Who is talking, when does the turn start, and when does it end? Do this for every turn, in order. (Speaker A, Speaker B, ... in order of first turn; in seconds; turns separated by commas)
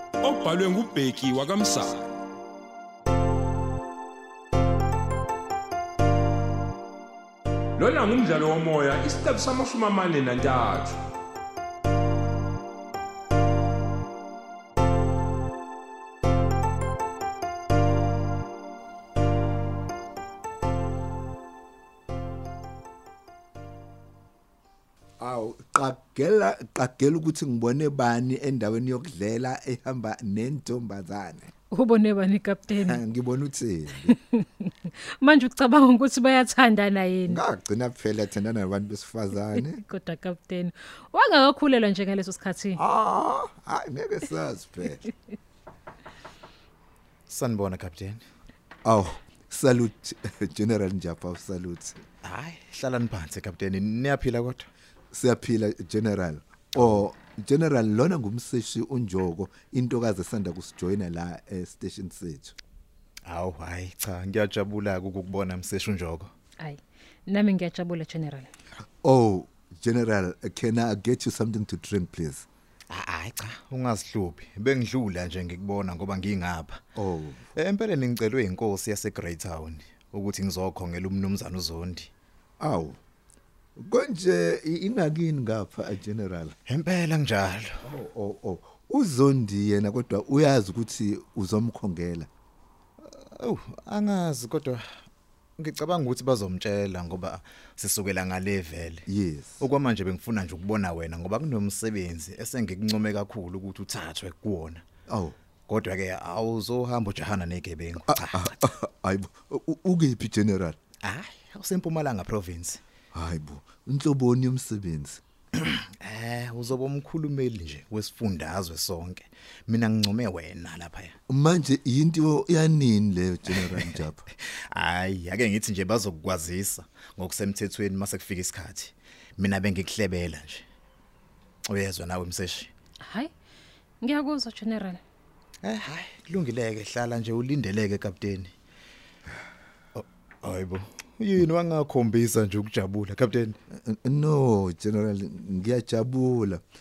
Speaker A: 0.2-2.2, Speaker A: 7.8-11.0, Speaker B: 25.2-31.5, Speaker C: 31.7-33.0, Speaker B: 32.7-34.1, Speaker C: 34.1-37.4, Speaker B: 37.3-39.8, Speaker C: 39.5-42.8, Speaker B: 42.8-45.0, Speaker D: 47.3-48.2, Speaker B: 48.9-52.0, Speaker D: 52.2-54.7, Speaker B: 55.1-62.5, Speaker D: 56.8-57.0, Speaker D: 63.3-66.3, Speaker C: 66.6-68.5, Speaker B: 69.0-72.5, Speaker D: 72.9-76.8, Speaker B: 77.0-77.4, Speaker D: 77.6-82.1, Speaker B: 82.6-83.0, Speaker B: 83.8-86.6, Speaker D: 86.7-87.8, Speaker B: 87.8-92.3, Speaker D: 93.0-94.8, Speaker D: 95.6-99.0, Speaker B: 99.1-99.7, Speaker D: 99.6-104.8, Speaker B: 105.1-105.3, Speaker D: 105.7-108.7, Speaker B: 108.1-110.8, Speaker D: 111.0-112.8, Speaker B: 113.1-115.2, Speaker D: 115.6-121.1, Speaker B: 121.3-124.3, Speaker D: 123.5-124.0, Speaker D: 124.7-130.7, Speaker D: 131.7-132.7, Speaker C: 134.0-135.0, Speaker D: 135.6-138.5, Speaker D: 139.9-143.6, Speaker B: 143.8-146.6